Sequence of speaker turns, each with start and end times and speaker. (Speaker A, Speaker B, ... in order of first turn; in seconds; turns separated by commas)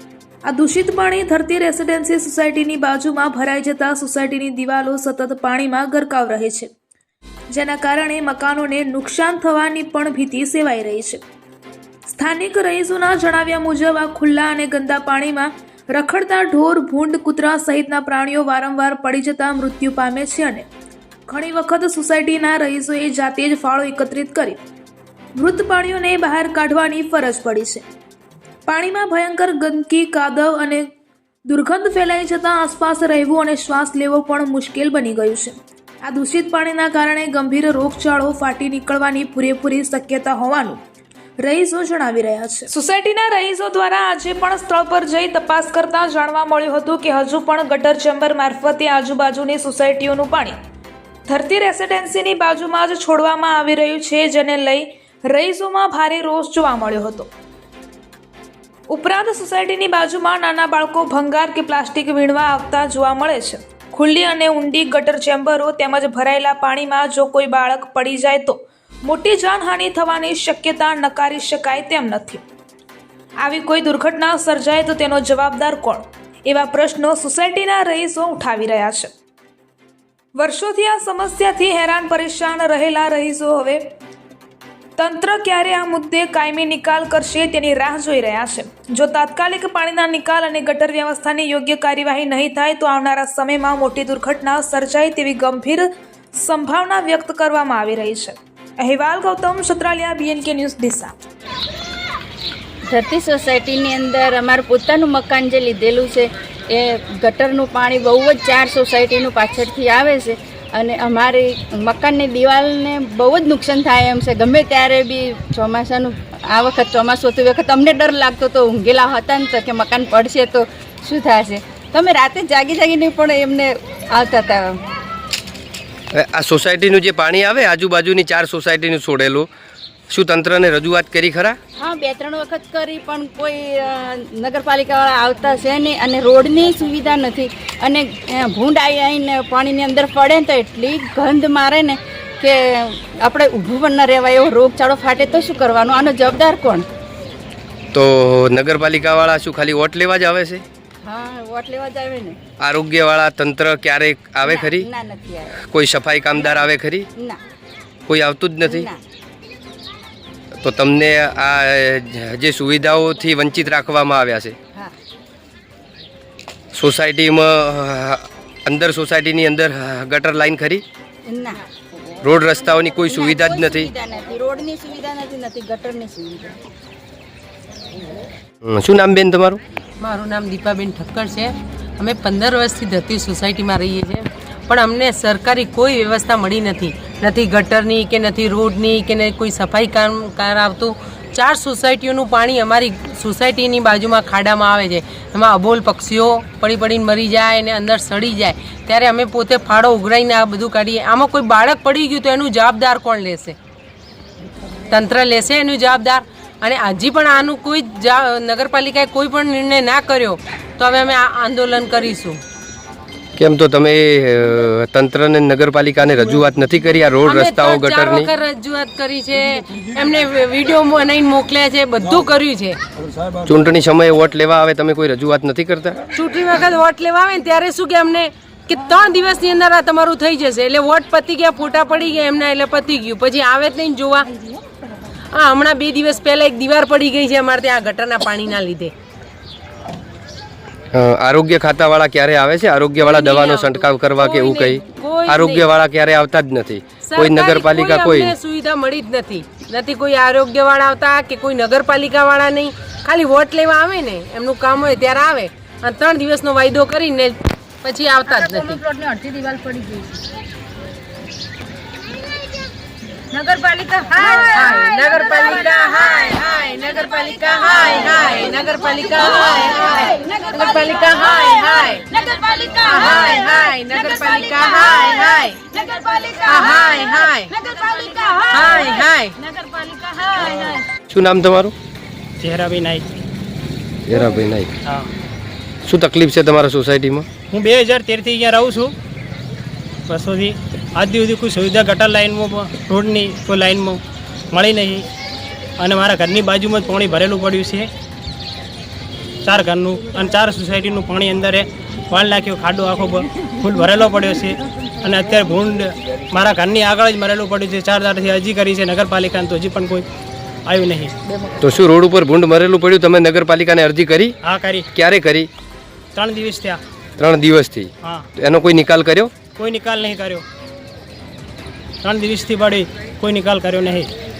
Speaker A: 0.5-6.7, Speaker A: 7.5-11.2, Speaker A: 12.1-20.6, Speaker A: 21.3-24.6, Speaker A: 25.4-27.8, Speaker A: 28.7-30.9, Speaker A: 31.5-40.8, Speaker A: 41.4-50.5, Speaker A: 51.3-57.3, Speaker A: 58.9-72.4, Speaker A: 73.4-79.1, Speaker A: 80.4-83.8, Speaker A: 85.0-101.1, Speaker B: 102.9-124.7, Speaker C: 126.1-129.5, Speaker C: 130.1-131.6, Speaker B: 131.8-146.8, Speaker C: 147.9-150.6, Speaker B: 151.0-152.4, Speaker C: 152.6-154.9, Speaker B: 154.4-155.6, Speaker C: 155.6-157.1, Speaker C: 158.1-158.9, Speaker B: 158.7-159.0, Speaker C: 160.6-164.5, Speaker C: 166.7-170.8, Speaker B: 171.3-171.6, Speaker C: 172.2-173.9, Speaker B: 173.1-176.6, Speaker C: 178.6-179.6, Speaker D: 180.0-203.6, Speaker D: 204.9-212.4, Speaker C: 213.4-218.3, Speaker D: 217.2-222.8, Speaker C: 223.4-226.0, Speaker D: 226.1-234.3, Speaker D: 235.3-238.9, Speaker C: 240.9-248.3, Speaker D: 243.0-245.7, Speaker D: 247.0-260.2, Speaker D: 263.3-275.8, Speaker B: 275.8-276.2, Speaker D: 276.3-279.5, Speaker B: 277.6-278.4, Speaker D: 280.1-280.7, Speaker C: 281.1-281.7, Speaker E: 282.4-283.1, Speaker C: 284.1-284.7, Speaker C: 285.8-287.3, Speaker E: 287.5-288.9, Speaker E: 290.1-294.0, Speaker E: 294.5-295.1, Speaker E: 295.8-297.9, Speaker E: 299.4-310.1, Speaker E: 310.6-311.1, Speaker C: 311.6-314.4, Speaker E: 314.4-314.9, Speaker C: 314.9-315.5, Speaker E: 316.1-316.8, Speaker C: 317.2-319.4, Speaker E: 319.5-320.4, Speaker E: 322.0-324.1